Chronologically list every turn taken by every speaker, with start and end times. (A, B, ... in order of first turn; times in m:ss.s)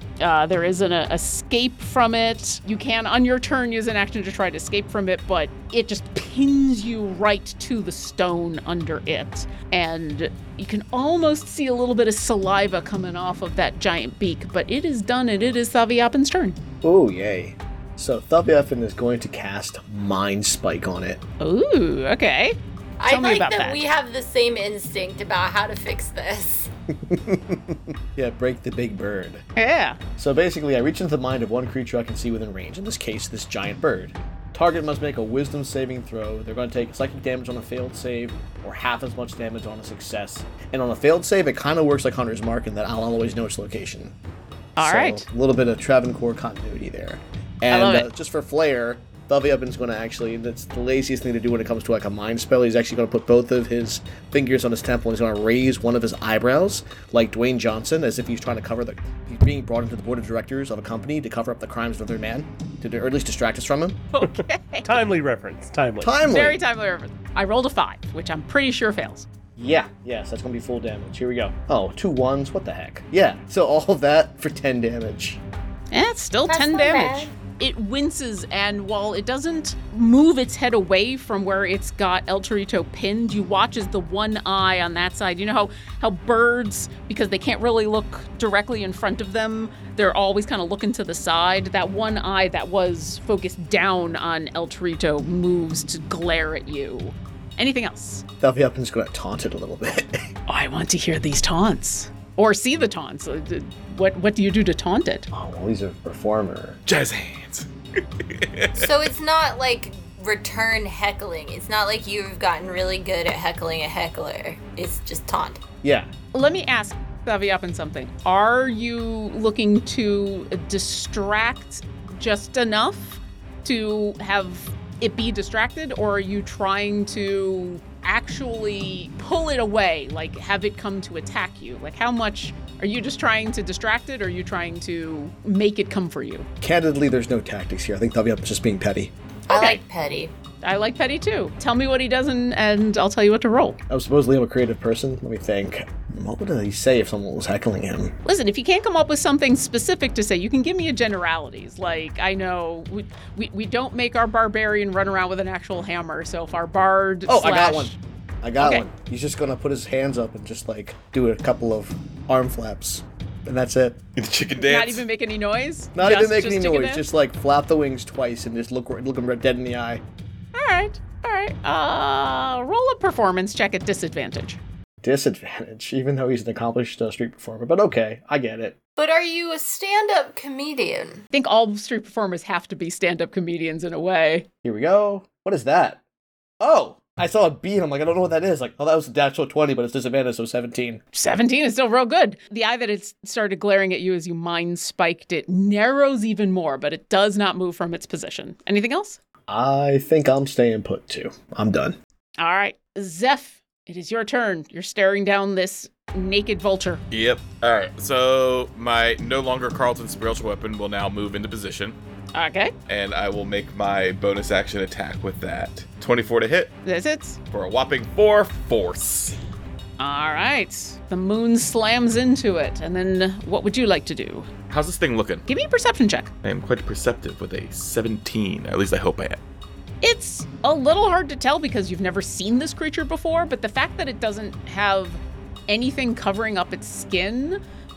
0:00.2-0:16.6 A
0:16.8-0:21.2 B
0:21.4-0:23.8 A
0:23.0-0:26.7 C
0:27.0-0:29.4 B
0:29.6-0:30.0 A
0:30.2-0:44.1 B
0:44.8-0:45.2 A
0:44.8-1:04.0 B
0:47.7-0:48.1 A
1:04.1-1:05.0 A
1:04.2-1:06.2 D
1:06.0-1:06.6 B
1:06.3-1:09.3 A
1:09.6-1:15.4 B
1:15.9-1:38.2 A
1:16.5-1:17.3 C
1:38.4-1:40.2 B
1:40.5-1:45.3 A
1:45.3-1:46.8 B
1:46.9-1:47.7 E
1:48.2-1:49.1 E
1:48.8-1:55.6 C
1:55.8-1:56.1 B
1:56.3-2:16.5 A
2:16.6-2:19.1 B
2:19.5-2:20.3 C
2:19.5-2:19.8 A
2:20.6-2:23.8 A
2:23.9-2:28.2 B
2:28.2-2:38.0 A
2:37.3-2:44.0 B
2:38.6-2:38.8 A
2:44.2-2:45.0 E
2:44.6-2:47.0 A
2:46.0-2:50.0 B
2:50.5-2:54.6 A
2:55.0-2:58.8 B
2:59.0-3:01.2 C
3:01.3-3:04.5 A
3:04.6-3:06.0 B
3:06.6-3:11.0 B
3:11.1-3:19.2 A
3:19.5-3:22.0 B
3:22.4-3:27.0 A
3:27.1-3:32.0 E
3:32.3-3:32.7 A
3:32.9-3:36.8 E
3:36.8-3:37.4 A
3:37.5-3:39.4 E
3:40.0-3:44.5 A
3:44.7-3:45.4 E
3:45.5-3:46.3 A
3:46.4-3:49.4 E
3:50.0-3:57.6 A